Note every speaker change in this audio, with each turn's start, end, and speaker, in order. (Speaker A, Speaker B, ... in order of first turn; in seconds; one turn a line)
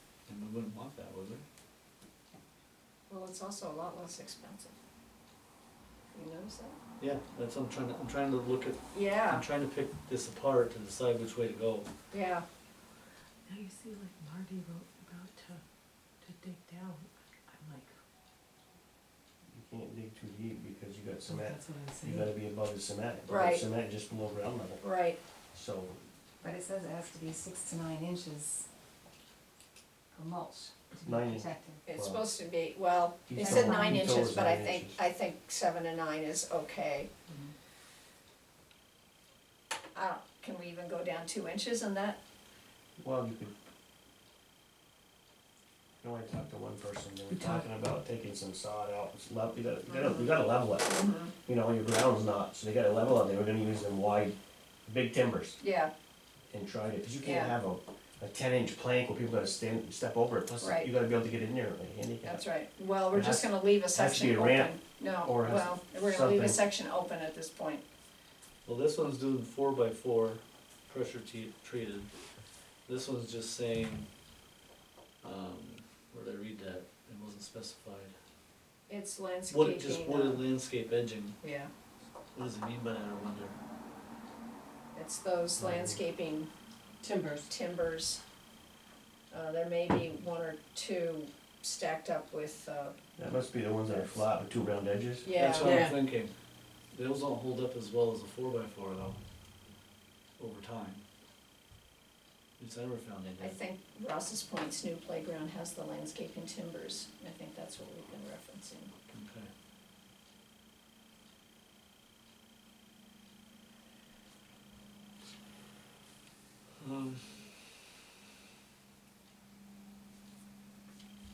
Speaker A: 0.3-1.4
Speaker B: 3.1-4.7
Speaker B: 6.1-6.8
Speaker A: 7.0-11.9
Speaker B: 8.9-9.4
Speaker B: 12.1-12.4
Speaker C: 13.4-15.6
Speaker C: 16.2-17.9
Speaker D: 19.5-24.8
Speaker C: 21.3-22.3
Speaker B: 23.3-23.6
Speaker B: 24.8-25.2
Speaker D: 25.5-26.0
Speaker E: 26.4-28.7
Speaker E: 30.1-31.8
Speaker D: 31.0-32.2
Speaker B: 31.9-37.1
Speaker D: 33.3-35.0
Speaker E: 33.5-34.3
Speaker B: 39.9-42.2
Speaker D: 43.0-43.5
Speaker D: 46.0-50.9
Speaker C: 47.3-47.6
Speaker B: 49.9-51.3
Speaker D: 51.4-54.3
Speaker D: 54.9-55.6
Speaker B: 55.6-55.9
Speaker D: 56.5-62.4
Speaker B: 57.2-57.5
Speaker B: 60.6-60.9
Speaker B: 62.2-67.8
Speaker D: 63.1-66.6
Speaker A: 68.6-72.1
Speaker A: 72.8-74.1
Speaker A: 75.2-78.1
Speaker B: 78.9-80.4
Speaker A: 79.5-81.4
Speaker B: 81.4-81.7
Speaker A: 82.3-83.5
Speaker B: 84.9-86.5
Speaker D: 85.6-86.0
Speaker C: 87.0-87.5
Speaker B: 87.5-88.2
Speaker B: 89.3-92.9
Speaker D: 93.2-95.3
Speaker B: 95.2-95.7
Speaker A: 95.3-96.3
Speaker C: 95.6-96.0
Speaker A: 96.9-99.2
Speaker A: 100.4-101.0
Speaker A: 102.6-103.5
Speaker B: 103.4-108.9
Speaker A: 109.1-109.5
Speaker A: 116.8-117.7